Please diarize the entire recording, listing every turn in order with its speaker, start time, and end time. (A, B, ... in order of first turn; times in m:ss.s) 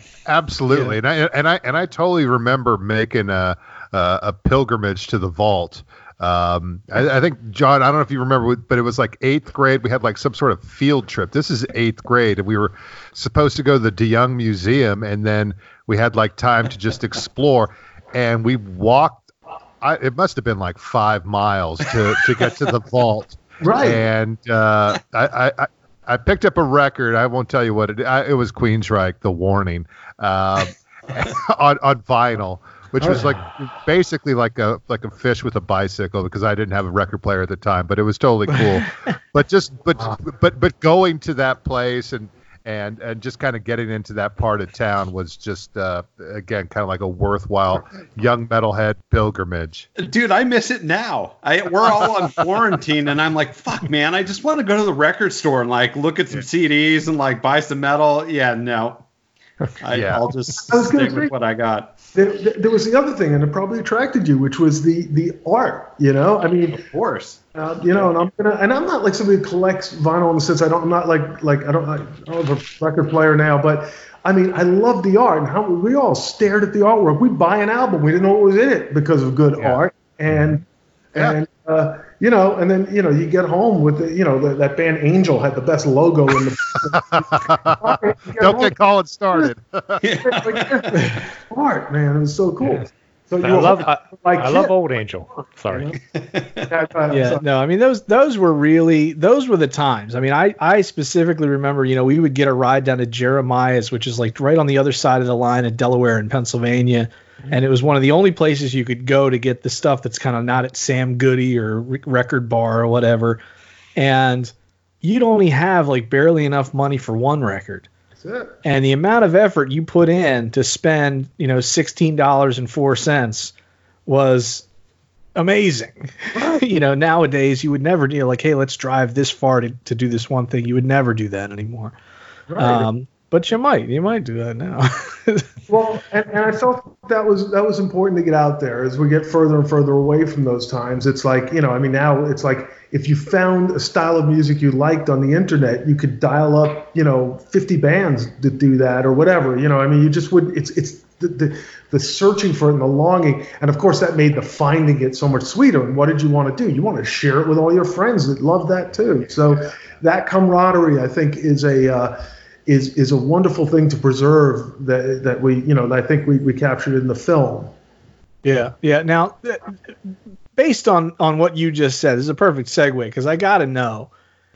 0:00.2-0:19.3 A
0:19.8-0:49.9 A
0:23.6-0:24.0 B
0:33.0-0:33.3 B
0:50.0-0:59.0 C
0:59.8-1:01.9 C
0:59.9-1:00.3 A
1:00.7-1:01.3 B
1:02.1-1:06.8 B
1:06.7-1:07.4 C
1:07.5-1:20.6 B
1:21.1-1:28.8 B
1:26.9-1:30.0 A
1:30.0-1:31.1 C
1:30.2-1:34.7 B
1:33.4-1:35.9 D
1:35.7-1:36.0 B
1:36.2-1:36.7 C
1:36.7-1:37.4 B
1:37.1-1:53.4 E
1:54.0-1:57.9 E
1:58.2-1:58.6 B
1:58.6-2:03.5 E
2:04.1-2:04.6 E
2:05.4-2:11.9 E
2:06.4-2:06.6 B
2:12.5-2:12.9 B
2:12.6-2:15.5 E
2:15.7-2:47.7 B
2:48.4-2:49.7 E
2:50.6-2:54.1 E